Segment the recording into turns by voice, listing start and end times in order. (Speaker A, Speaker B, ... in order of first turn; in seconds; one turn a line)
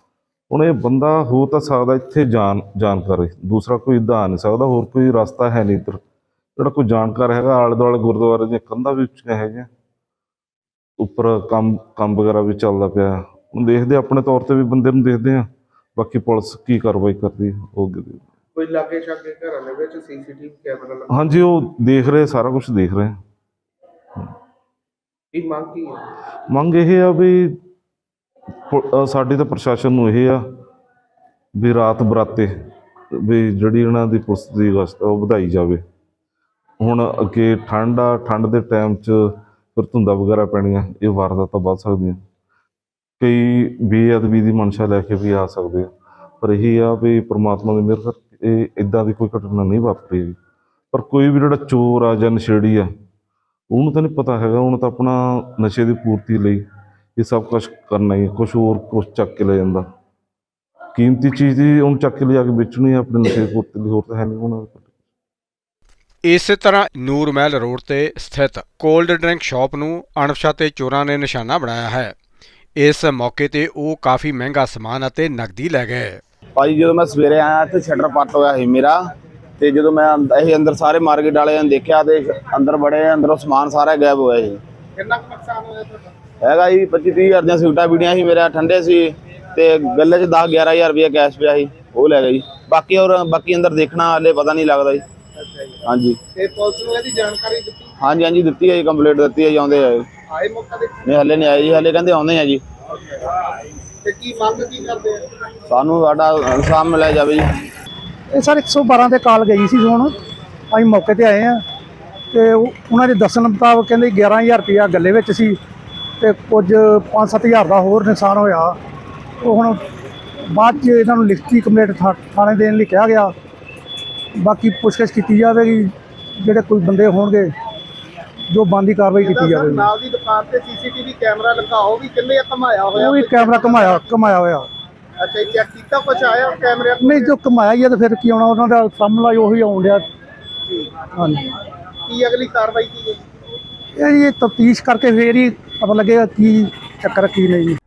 Speaker A: 0.5-6.0
Speaker A: 6.6-9.7
Speaker A: 11.0-18.2
Speaker B: 18.6-21.1
Speaker A: 21.1-23.2
Speaker B: 25.3-26.1
Speaker A: 26.5-27.6
Speaker A: 28.7-30.4
Speaker A: 31.6-32.5
Speaker A: 33.1-35.8
Speaker A: 36.8-42.2
Speaker A: 43.2-45.9
Speaker A: 46.4-50.4
Speaker A: 50.9-52.9
Speaker A: 53.7-56.6
Speaker A: 57.2-59.9
Speaker A: 61.0-64.9
Speaker C: 66.3-72.2
Speaker C: 72.8-76.2
Speaker D: 76.6-79.0
Speaker D: 79.6-84.6
Speaker B: 85.0-86.1
Speaker D: 86.4-95.0
Speaker D: 95.9-96.2
Speaker B: 96.3-97.9
Speaker D: 98.0-100.0
Speaker B: 100.3-101.6
Speaker D: 101.0-102.6
Speaker B: 104.0-105.2
Speaker D: 105.7-107.5
Speaker E: 108.3-110.1
Speaker E: 110.7-111.6
Speaker E: 112.3-115.6
Speaker E: 116.2-118.7
Speaker E: 119.4-119.8
Speaker E: 120.5-123.3
Speaker E: 124.4-127.5
Speaker E: 128.5-129.9
Speaker B: 129.2-134.3
Speaker E: 133.0-134.7
Speaker B: 135.2-137.3
Speaker E: 137.0-140.1
Speaker B: 140.7-141.0
Speaker E: 141.2-141.4
Speaker B: 142.1-143.2
Speaker E: 144.0-147.8